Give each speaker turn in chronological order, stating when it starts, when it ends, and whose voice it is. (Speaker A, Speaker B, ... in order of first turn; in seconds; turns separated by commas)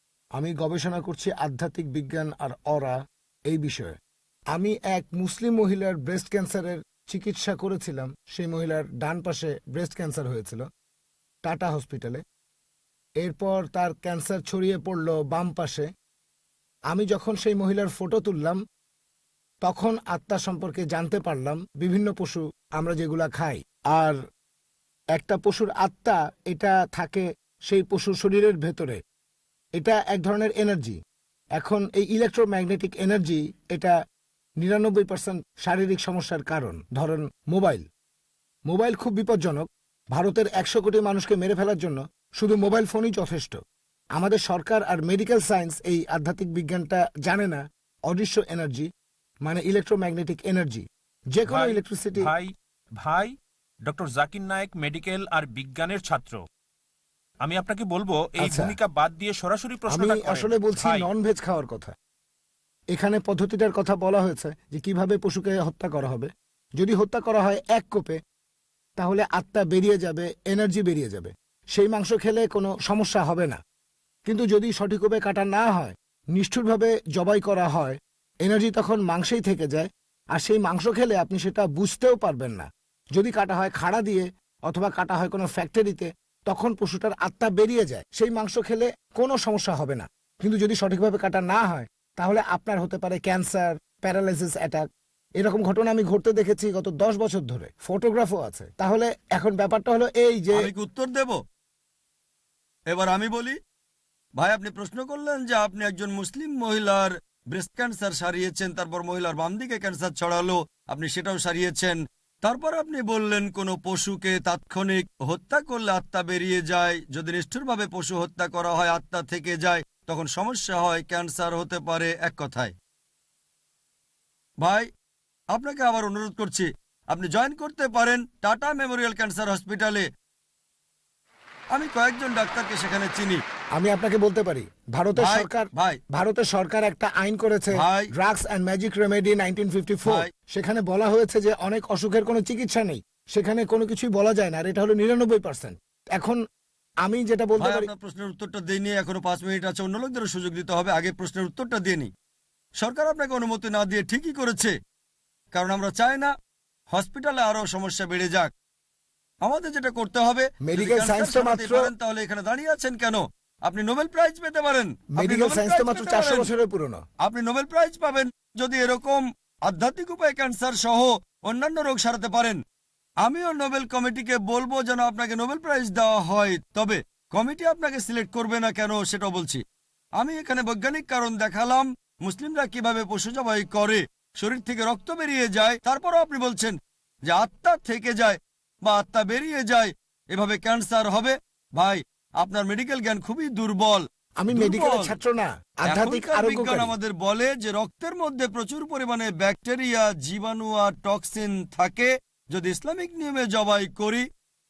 Speaker A: 0.4-3.0, Speaker A: 3.5-3.9, Speaker A: 4.5-10.6, Speaker A: 11.4-12.2, Speaker A: 13.2-15.9, Speaker A: 16.9-18.6, Speaker A: 19.6-24.2, Speaker A: 25.1-29.0, Speaker A: 29.8-30.9, Speaker A: 31.6-33.9, Speaker A: 34.6-37.8, Speaker A: 38.7-43.5, Speaker A: 44.2-48.9, Speaker A: 49.5-52.3, Speaker B: 51.5-56.4, Speaker B: 57.4-61.1, Speaker A: 58.4-58.8, Speaker A: 59.9-61.9, Speaker A: 62.9-68.2, Speaker A: 69.0-73.6, Speaker A: 74.2-94.8, Speaker A: 95.4-100.7, Speaker C: 100.5-101.3, Speaker C: 102.9-103.6, Speaker C: 104.4-122.7, Speaker C: 124.6-124.9, Speaker C: 125.5-130.1, Speaker C: 131.7-133.4, Speaker A: 133.8-146.4, Speaker C: 135.2-136.0, Speaker C: 137.7-138.1, Speaker A: 147.0-147.9, Speaker C: 147.6-152.1, Speaker C: 152.8-154.7, Speaker C: 155.5-156.3, Speaker C: 156.9-158.5, Speaker C: 159.4-166.5, Speaker A: 160.6-161.9, Speaker A: 165.1-167.0, Speaker C: 167.2-172.6, Speaker C: 173.2-179.6, Speaker C: 180.2-186.8, Speaker C: 187.3-195.2, Speaker A: 194.4-196.9, Speaker C: 195.9-204.2